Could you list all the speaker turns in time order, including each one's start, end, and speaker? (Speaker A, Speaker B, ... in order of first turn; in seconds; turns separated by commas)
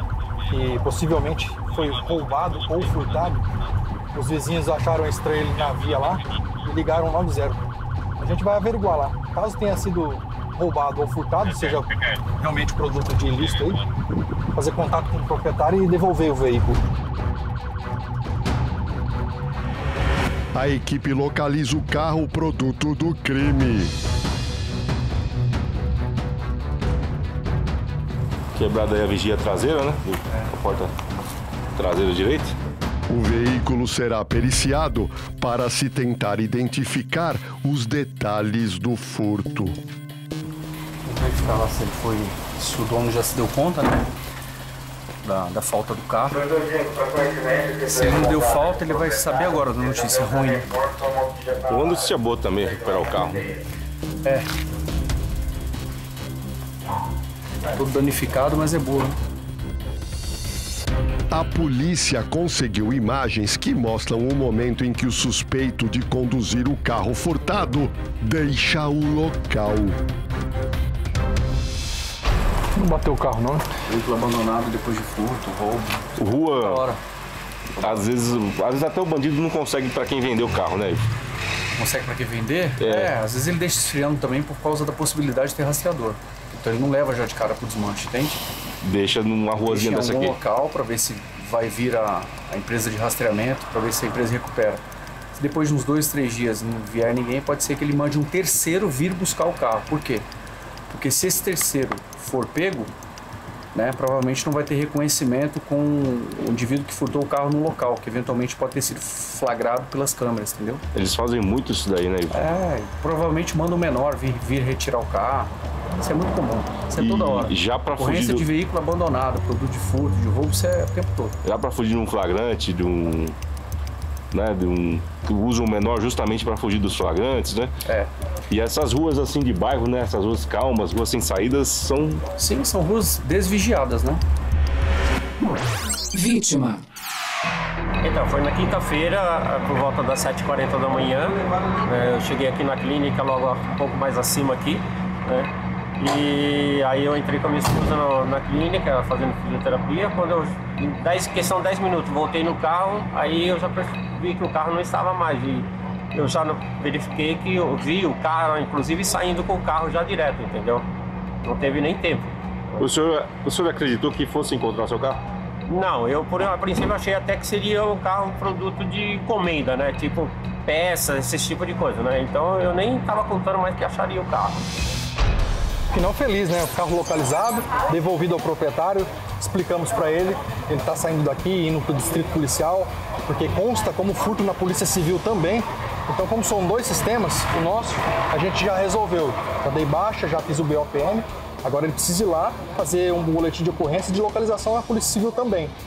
Speaker A: 0.5-3.5, Speaker A: 4.1-7.6, Speaker A: 8.2-13.8, Speaker A: 14.5-16.8, Speaker B: 20.6-23.9, Speaker C: 28.5-30.9, Speaker C: 31.8-32.5, Speaker B: 33.1-39.8, Speaker D: 41.1-44.1, Speaker D: 45.2-46.5, Speaker D: 47.8-51.2, Speaker C: 51.5-53.6, Speaker D: 57.7-59.2, Speaker B: 61.3-70.0, Speaker A: 72.8-73.7, Speaker D: 73.9-76.1, Speaker C: 76.2-76.8, Speaker D: 76.6-77.0, Speaker C: 77.8-81.0, Speaker D: 81.8-88.4, Speaker C: 82.8-83.1, Speaker C: 88.8-90.4, Speaker D: 89.5-94.8, Speaker D: 95.3-100.3, Speaker D: 100.9-102.9, Speaker D: 103.7-110.8, Speaker C: 110.9-112.4, Speaker D: 112.3-121.4, Speaker C: 117.0-118.5, Speaker C: 121.4-123.4, Speaker C: 124.3-127.7, Speaker C: 128.5-132.2, Speaker D: 132.4-134.2, Speaker D: 136.1-136.8, Speaker E: 138.0-160.8, Speaker E: 161.4-162.3, Speaker C: 162.8-165.2, Speaker E: 165.7-174.6, Speaker A: 175.9-195.7